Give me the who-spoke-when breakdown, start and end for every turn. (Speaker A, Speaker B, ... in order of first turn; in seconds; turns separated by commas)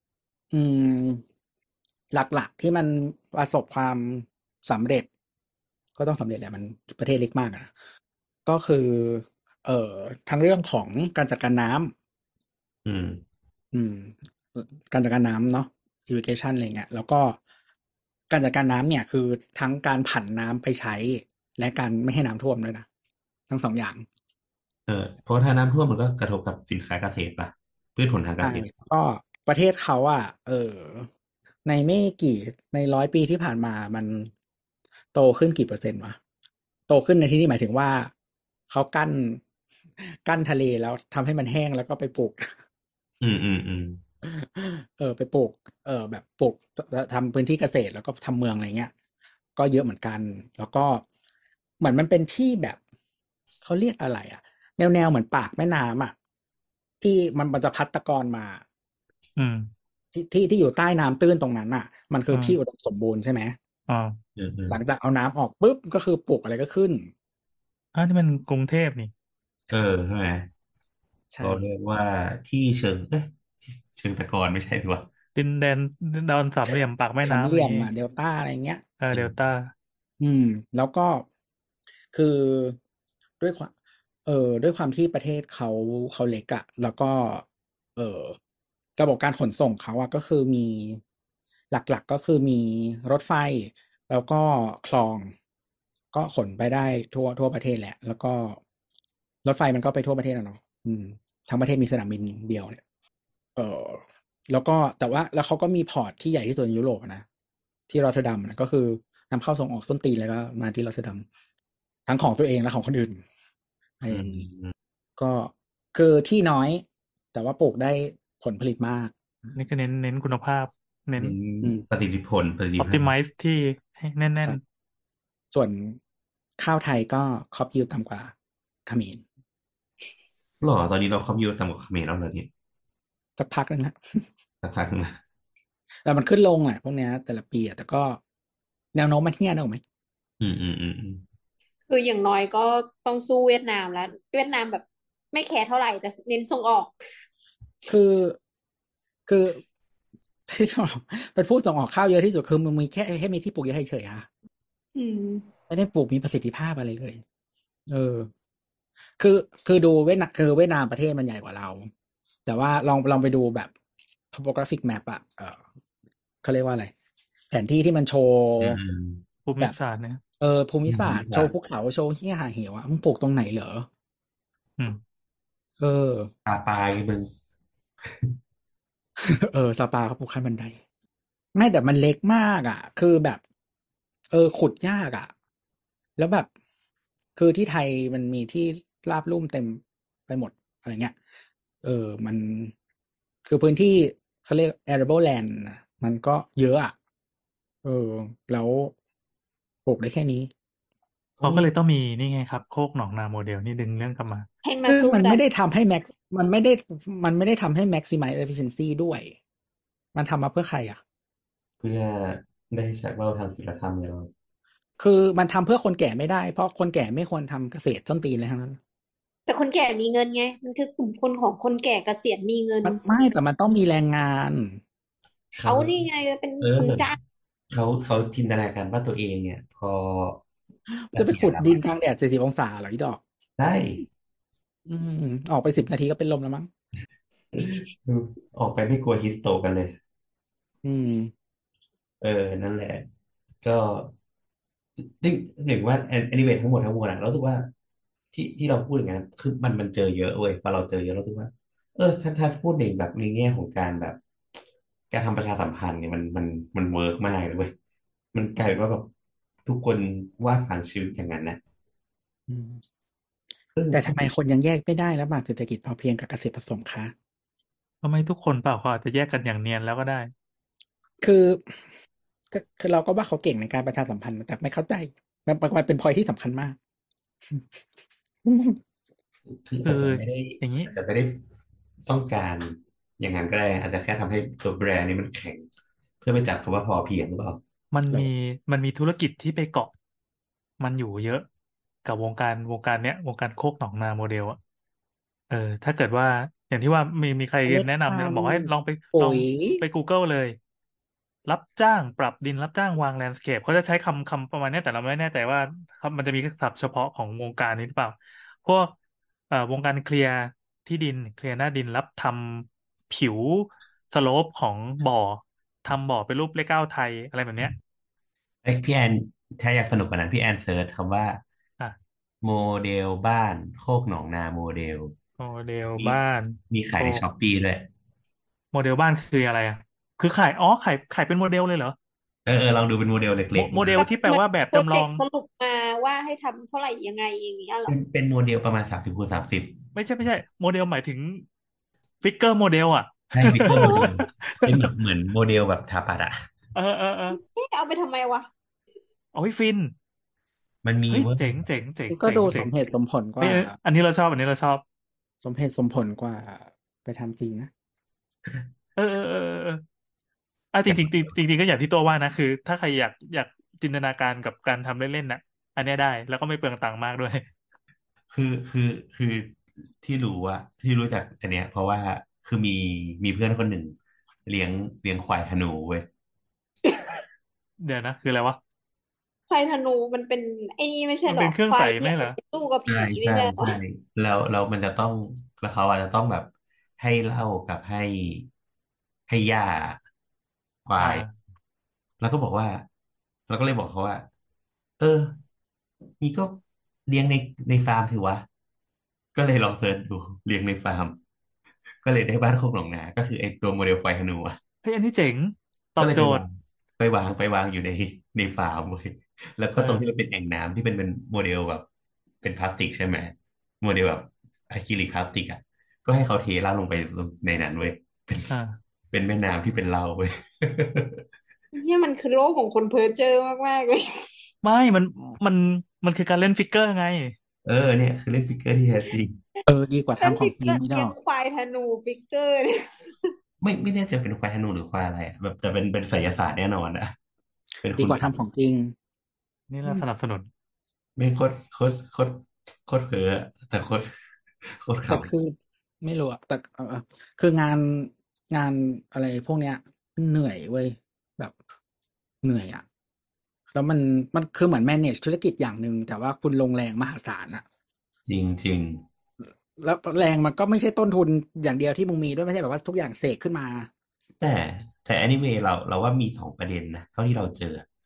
Speaker A: 0.5-1.2, Speaker A: 2.1-5.1, Speaker A: 6.0-7.7, Speaker A: 8.4-11.9, Speaker B: 12.8-13.2, Speaker A: 13.7-17.4, Speaker A: 18.3-22.9, Speaker A: 23.5-24.0, Speaker B: 24.9-28.7, Speaker A: 28.4-31.1, Speaker A: 31.6-34.3, Speaker A: 35.1-36.2, Speaker A: 36.9-38.1, Speaker A: 38.7-39.4, Speaker A: 40.0-42.6, Speaker B: 43.2-44.0, Speaker A: 44.2-48.9, Speaker A: 49.5-51.0, Speaker A: 51.8-52.8, Speaker A: 53.6-56.1, Speaker A: 57.0-58.6, Speaker C: 59.4-59.7, Speaker A: 60.1-63.6, Speaker C: 62.3-62.6, Speaker C: 63.9-64.1, Speaker B: 64.4-64.8, Speaker A: 64.7-67.1, Speaker C: 67.9-69.1, Speaker B: 69.7-70.5, Speaker A: 71.3-71.6, Speaker B: 71.4-75.1, Speaker C: 75.3-77.9, Speaker A: 77.2-78.8, Speaker C: 79.0-79.7, Speaker A: 80.2-81.2, Speaker A: 82.1-82.8, Speaker A: 83.4-83.7, Speaker A: 84.2-87.4, Speaker A: 88.0-88.4, Speaker A: 89.0-91.0, Speaker A: 91.7-95.3, Speaker A: 96.1-98.6, Speaker A: 99.4-102.8, Speaker A: 103.5-107.2, Speaker A: 107.9-111.2, Speaker A: 112.1-113.2, Speaker A: 114.0-114.4, Speaker B: 114.1-114.7, Speaker A: 115.2-119.1, Speaker C: 119.5-121.3, Speaker B: 121.2-123.1, Speaker C: 122.8-124.6, Speaker A: 125.5-126.0, Speaker A: 126.6-128.3, Speaker A: 128.8-129.2, Speaker B: 130.6-132.5, Speaker A: 133.4-134.2, Speaker B: 134.6-135.2, Speaker A: 136.0-138.2, Speaker A: 138.9-139.8, Speaker B: 140.4-141.2, Speaker D: 141.9-146.9, Speaker A: 147.9-148.4, Speaker A: 149.3-149.6, Speaker A: 150.5-154.3, Speaker D: 154.9-155.4, Speaker A: 155.7-157.2, Speaker A: 157.9-158.3, Speaker A: 159.2-161.9, Speaker A: 162.4-163.7, Speaker A: 164.3-165.6, Speaker A: 166.4-166.9, Speaker A: 167.5-168.8, Speaker B: 168.6-169.2, Speaker C: 169.4-170.2, Speaker A: 170.4-173.9, Speaker B: 170.9-171.5, Speaker A: 175.8-176.3, Speaker B: 176.4-177.3, Speaker B: 178.1-178.3, Speaker A: 179.2-180.8, Speaker A: 181.5-183.4, Speaker A: 184.3-185.3, Speaker A: 186.2-186.5, Speaker A: 187.3-191.2, Speaker A: 191.8-192.7, Speaker A: 193.4-196.9, Speaker A: 197.8-198.9, Speaker A: 199.8-200.5, Speaker B: 201.4-201.7, Speaker C: 201.4-204.5, Speaker D: 204.6-205.4, Speaker A: 204.8-209.3, Speaker A: 210.1-211.0, Speaker B: 211.8-214.3, Speaker A: 215.0-218.8, Speaker D: 219.5-223.0, Speaker A: 222.8-224.8, Speaker B: 225.5-226.0, Speaker D: 225.6-227.2, Speaker B: 226.6-227.1, Speaker B: 227.7-230.4, Speaker A: 231.0-233.2, Speaker B: 231.1-231.8, Speaker B: 233.6-234.1, Speaker A: 234.9-236.7, Speaker B: 237.5-239.9, Speaker A: 240.8-241.3, Speaker B: 242.2-243.0, Speaker B: 243.6-244.1, Speaker B: 245.0-247.7, Speaker B: 248.3-254.2, Speaker B: 255.1-257.7, Speaker B: 258.3-259.1, Speaker B: 259.6-261.6, Speaker A: 262.5-262.8, Speaker B: 263.7-264.3, Speaker A: 263.9-267.1, Speaker C: 268.0-270.3, Speaker A: 271.2-271.8, Speaker A: 272.5-276.8, Speaker A: 278.4-278.8, Speaker B: 279.5-281.4, Speaker C: 279.9-280.9, Speaker B: 282.1-285.6, Speaker B: 286.2-287.6, Speaker C: 287.9-289.9, Speaker C: 290.8-291.4, Speaker C: 292.0-294.6, Speaker C: 295.5-300.6, Speaker A: 297.6-299.8, Speaker C: 301.4-308.9, Speaker C: 309.5-317.7, Speaker B: 318.6-321.4, Speaker B: 322.4-325.1, Speaker C: 325.4-327.2, Speaker B: 326.7-327.9, Speaker C: 328.7-331.9, Speaker B: 332.4-334.0, Speaker C: 333.5-335.2, Speaker D: 334.0-337.9, Speaker B: 337.9-339.8, Speaker C: 339.9-341.4, Speaker C: 342.2-344.8, Speaker B: 343.3-346.4, Speaker D: 343.7-344.0, Speaker C: 346.7-347.4, Speaker D: 347.3-348.5, Speaker C: 349.3-349.9, Speaker B: 350.8-351.6, Speaker C: 351.1-352.7, Speaker A: 352.1-353.7, Speaker C: 353.4-354.8, Speaker A: 355.4-357.7, Speaker C: 358.9-359.8, Speaker C: 360.7-367.4, Speaker B: 360.9-361.3, Speaker B: 368.3-376.1, Speaker D: 376.9-377.1, Speaker C: 377.8-378.6, Speaker D: 379.5-383.8, Speaker C: 381.2-382.4, Speaker B: 382.9-388.5, Speaker B: 389.3-390.0, Speaker B: 390.8-391.2, Speaker C: 391.0-391.3, Speaker B: 392.2-392.9, Speaker B: 393.5-394.2, Speaker B: 395.0-395.4, Speaker B: 396.2-398.4, Speaker B: 399.3-401.2, Speaker B: 402.0-404.6, Speaker C: 404.8-406.4, Speaker B: 406.0-411.9, Speaker C: 409.8-410.0, Speaker B: 412.4-418.5, Speaker C: 418.5-418.8, Speaker B: 419.1-421.2, Speaker D: 421.7-424.3, Speaker C: 424.6-427.3, Speaker B: 427.6-429.4, Speaker A: 429.6-431.1, Speaker D: 430.2-433.1, Speaker B: 433.6-437.1, Speaker B: 437.8-438.3, Speaker A: 438.0-438.9, Speaker C: 439.7-440.5, Speaker B: 441.2-444.1, Speaker B: 444.7-445.3, Speaker A: 445.1-451.6, Speaker A: 452.4-452.8, Speaker A: 453.7-457.6, Speaker B: 458.3-459.0, Speaker A: 459.8-463.9, Speaker B: 464.4-467.8